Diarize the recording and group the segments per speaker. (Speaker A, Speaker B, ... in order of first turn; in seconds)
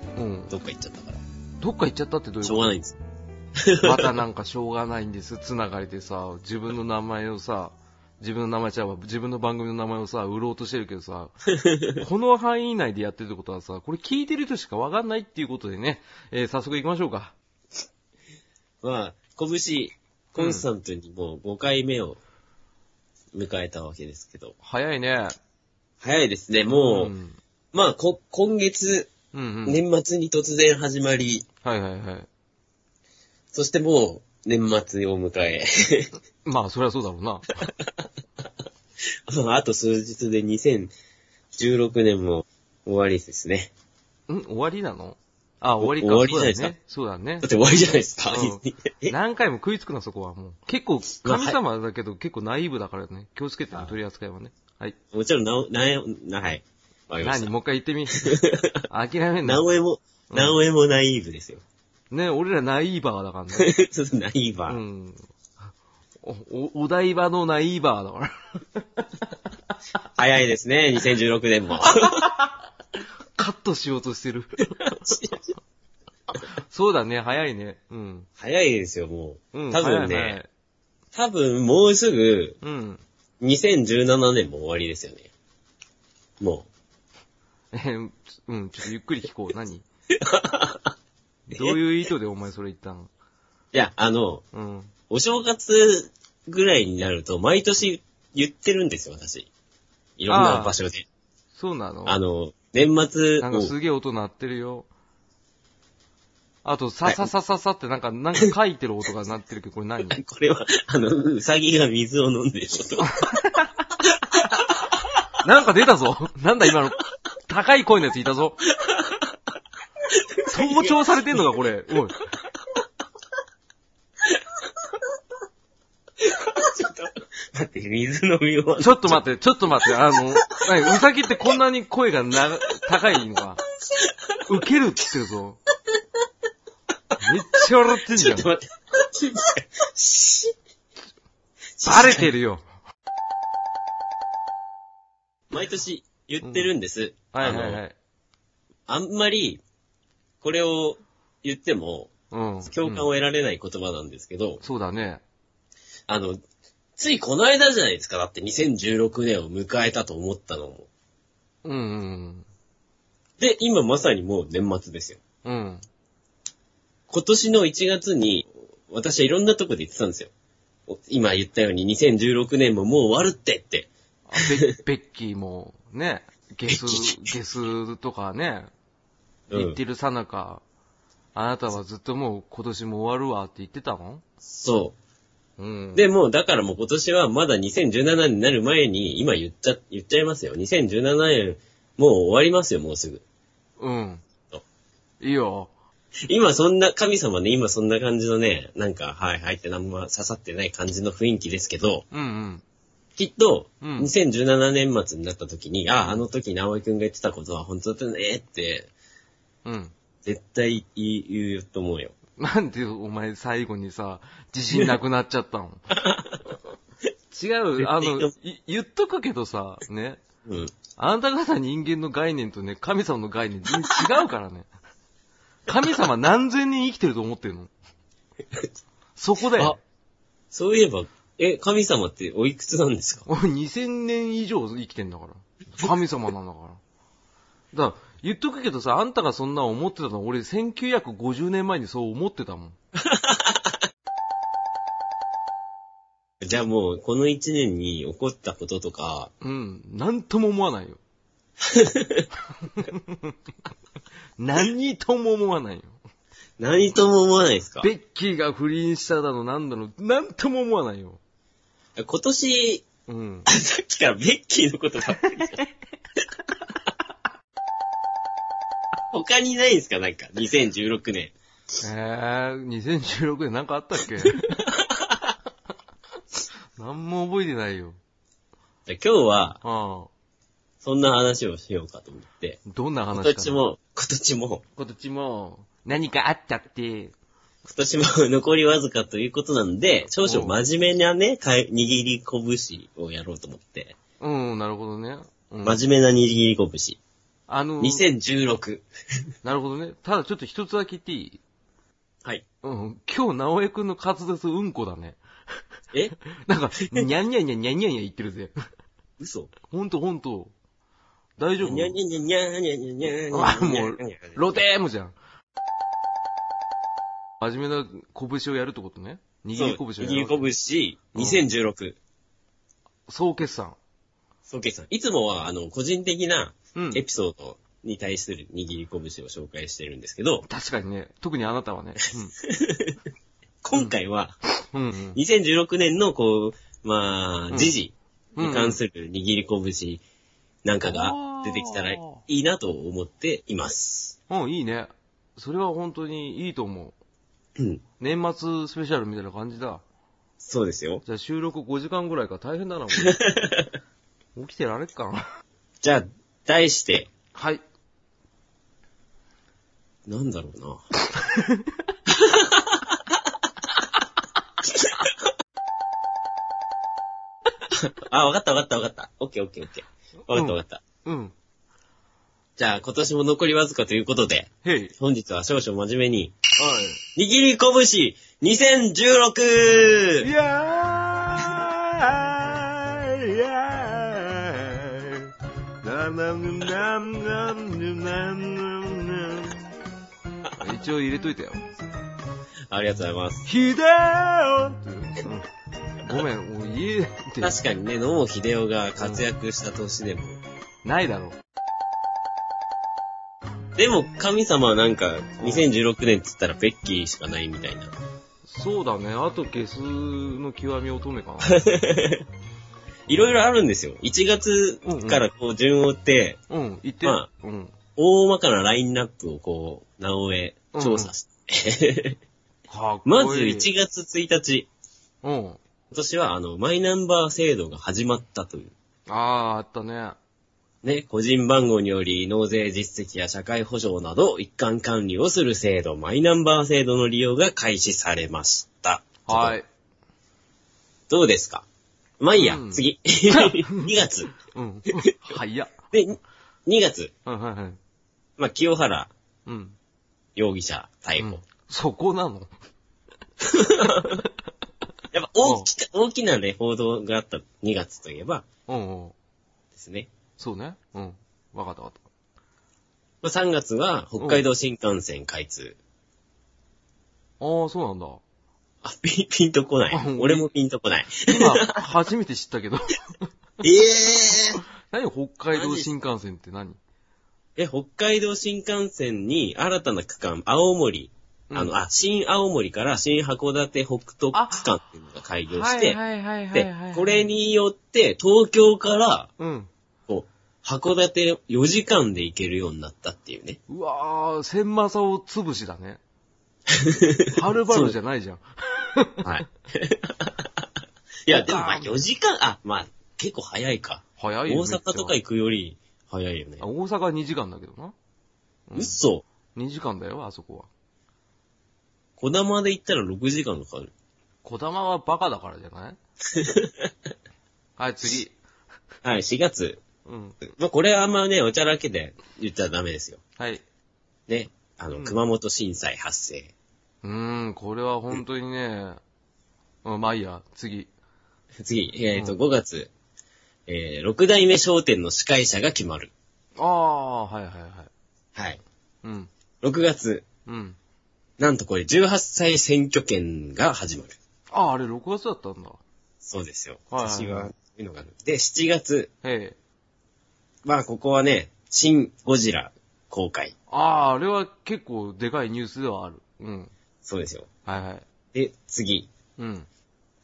Speaker A: 0.2-0.5, 1.6-2.7, 3.8-11.4, 12.0-17.4, 20.4-20.7, 24.6-25.4, 26.7-27.4, 29.3-29.8, 31.6-32.3, 36.5-37.7, 44.3-47.5, 48.3-55.0, 57.2-59.6, 60.3-60.6, 62.1-63.7, 64.7-65.2, 66.2-69.1, 71.8-72.6, 73.4-75.1, 76.4-78.3, 79.5-80.5, 82.6-83.0, 87.7-89.8, 91.5-93.1, 94.5-94.9, 100.3-100.8, 101.5-102.2, 103.4-104.9, 106.6-110.2, 113.0-113.8, 115.4-118.6, 120.5-122.2, 128.8-133.6, 134.5-135.6, 137.2-138.5, 141.8-142.7, 146.4-146.7, 147.3-147.9, 152.3-153.1, 154.6-155.2, 161.6-162.5, 165.4-165.8, 174.3-178.7, 179.5-180.6, 181.3-184.2, 185.6-186.1, 193.8-194.2, 195.2-195.7, 202.1-202.6, 203.8-204.1, 209.7-209.9, 212.4-216.0, 217.3-220.2, 221.0-224.7, 225.7-227.7, 229.2-229.8, 233.3-236.8, 237.7-242.8, 249.4-251.0, 252.7-253.3, 254.4-256.0, 257.8-261.2, 263.1-263.5, 271.8-274.6, 276.8-278.0, 279.6-280.1, 282.7-283.6, 284.8-287.1, 290.2-290.5, 294.2-295.8, 297.5-298.1, 299.4-301.4, 302.6-305.2, 306.4-308.5, 309.7-310.5, 311.4-312.0, 313.3-315.1, 317.4-320.5, 321.1-321.4, 323.1-323.8, 326.8-327.1, 330.5-332.4, 334.7-335.2, 338.4-338.8, 340.9-342.2, 344.3-347.0, 348.0-349.8, 351.1-353.2, 354.4-355.3, 357.3-357.6, 361.1-361.7, 370.3-371.3, 374.6-374.9, 376.6-377.0, 380.2-385.3, 385.8-389.6, 390.6-391.6, 393.5-395.5, 396.0-397.6, 400.8-401.4, 405.4-405.7, 408.5-411.6, 414.9-415.2, 416.5-417.8, 420.7-421.1, 422.7-423.7, 425.2-425.6, 429.1-430.2, 439.3-439.7, 442.4-445.7, 447.2-447.8, 449.5-449.8, 451.2-452.5, 453.8-454.2, 455.4-455.7, 458.7-459.1, 460.4-462.0, 464.2-464.4, 467.4-468.2, 469.9-470.5, 471.2-473.0, 474.9-476.8, 484.3-484.7, 485.5-487.3, 489.4-489.7, 493.7-496.0, 497.3-499.3, 501.3-502.0, 504.2-505.2, 506.6-507.9, 508.7-509.0, 509.6-510.7, 514.4-516.0, 517.8-518.4, 520.1-520.4, 523.4-523.6, 525.0-525.2, 527.0-529.0, 529.9-530.9, 536.6-537.9, 539.0-539.3, 540.5-540.8, 544.5-545.8, 546.9-547.5, 549.2-549.6, 553.7-556.7, 557.7-558.1, 559.4-559.7
Speaker B: 0.5-1.2, 2.4-3.0, 3.6-4.2, 11.6-12.1, 18.8-22.2, 23.3-24.6, 26.0-27.1, 27.7-29.1, 29.7-31.5, 33.5-36.1, 39.0-40.9, 41.5-43.7, 45.8-46.8, 47.4-49.2, 51.2-51.6, 55.1-57.5, 58.2-58.8, 59.4-61.6, 63.6-64.8, 70.2-72.3, 75.0-75.4, 78.4-80.4, 81.1-82.6, 83.4-85.3, 86.4-86.7, 90.2-90.9, 91.5-91.8, 93.7-94.5, 95.1-99.5, 100.2-101.0, 102.1-103.7, 107.0-107.3, 110.1-113.2, 114.4-114.8, 118.8-119.3, 120.1-121.4, 126.2-129.2, 129.8-130.2, 133.9-134.4, 138.1-140.6, 141.8-142.3, 145.5-147.8, 148.9-149.6, 150.4-152.1, 152.7-154.6, 156.1-156.4, 157.0-160.9, 163.4-165.2, 167.1-170.3, 170.9-174.7, 176.7-177.3, 179.5-179.8, 184.4-184.9, 185.9-193.2, 196.3-202.1, 203.2-208.9, 210.2-212.1, 216.0-216.4, 217.8-218.3, 220.4-220.7, 230.5-233.3, 243.1-243.6, 246.4-249.3, 251.6-252.3, 256.6-257.9, 262.0-262.9, 263.5-265.6, 269.1-271.3, 274.5-275.2, 278.9-279.6, 280.8-282.6, 283.1-284.6, 287.6-294.0, 295.6-297.0, 297.8-298.9, 309.2-309.5, 311.6-314.4, 319.6-322.0, 324.5-330.5, 332.4-333.0, 333.6-334.4, 335.1-340.0, 340.6-344.2, 350.4-351.0, 353.0-353.7, 355.8-357.1, 360.1-360.8, 362.1-363.0, 367.7-370.8, 372.6-376.4, 377.1-380.3, 392.7-393.5, 397.4-400.4, 403.8-407.9, 411.4-412.2, 413.1-416.4, 418.0-422.2, 423.1-424.7, 425.9-428.7, 430.8-439.6, 441.1-441.6, 442.2-444.3, 445.9-447.1, 448.4-449.1, 450.4-451.4, 453.5-454.2, 455.1-458.4, 459.8-460.1, 463.2-465.8, 468.8-471.7, 473.6-474.6, 475.5-475.9, 477.6-486.0, 486.5-489.3, 490.1-493.6, 496.7-498.0, 499.2-500.6, 501.3-506.6, 508.8-509.2, 512.2-513.9, 516.3-516.9, 519.0-519.8, 520.5-523.2, 524.3-526.5, 531.6-532.9, 533.7-536.1, 538.4-538.6, 539.6-540.2, 541.4-544.1, 546.2-549.1, 550.6-553.5, 557.0-557.5, 558.3-559.1